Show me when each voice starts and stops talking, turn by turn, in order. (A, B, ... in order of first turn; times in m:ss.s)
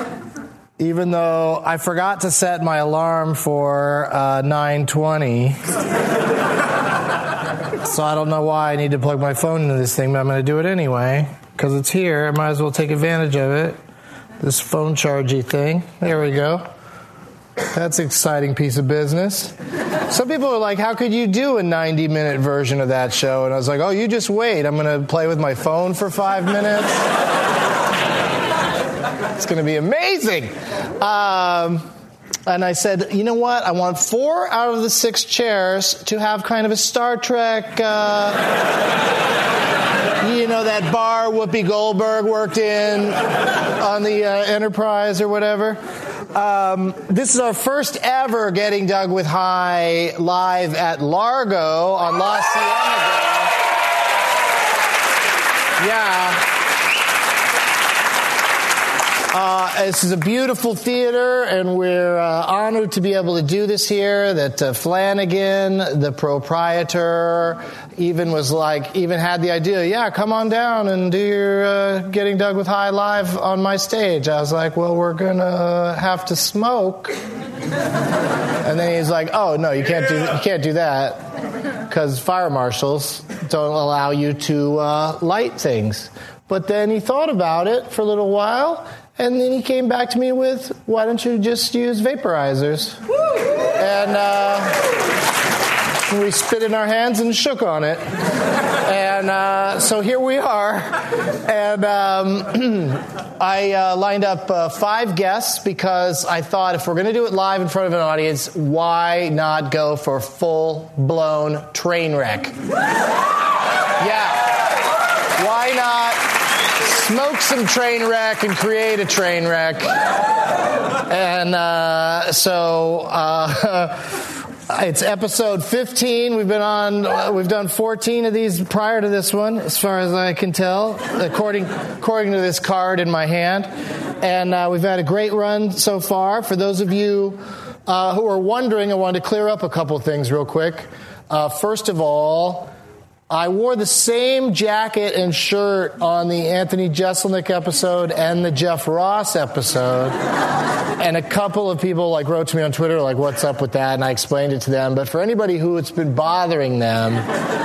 0:00.8-0:05.6 A
0:07.8-0:13.8 A
0:14.4-0:16.6 A
0:17.7-0:19.5 A
0:20.1-0:27.1 A
0:29.3-0:31.9 A
0:32.5-0:38.4 A
0:40.2-0:45.8 A
0:46.3-0:53.6 A
0:55.8-0:56.4 A
0:59.3-1:17.2 A
1:18.6-1:21.2 A
1:21.9-1:33.0 A
1:33.8-1:34.8 A
1:36.1-1:38.0 A
1:38.8-1:52.6 A
1:54.0-1:54.6 A
1:55.4-1:59.9 A
2:01.0-2:13.7 A
2:14.2-2:22.7 A
2:23.3-2:30.2 A
2:31.0-2:37.3 A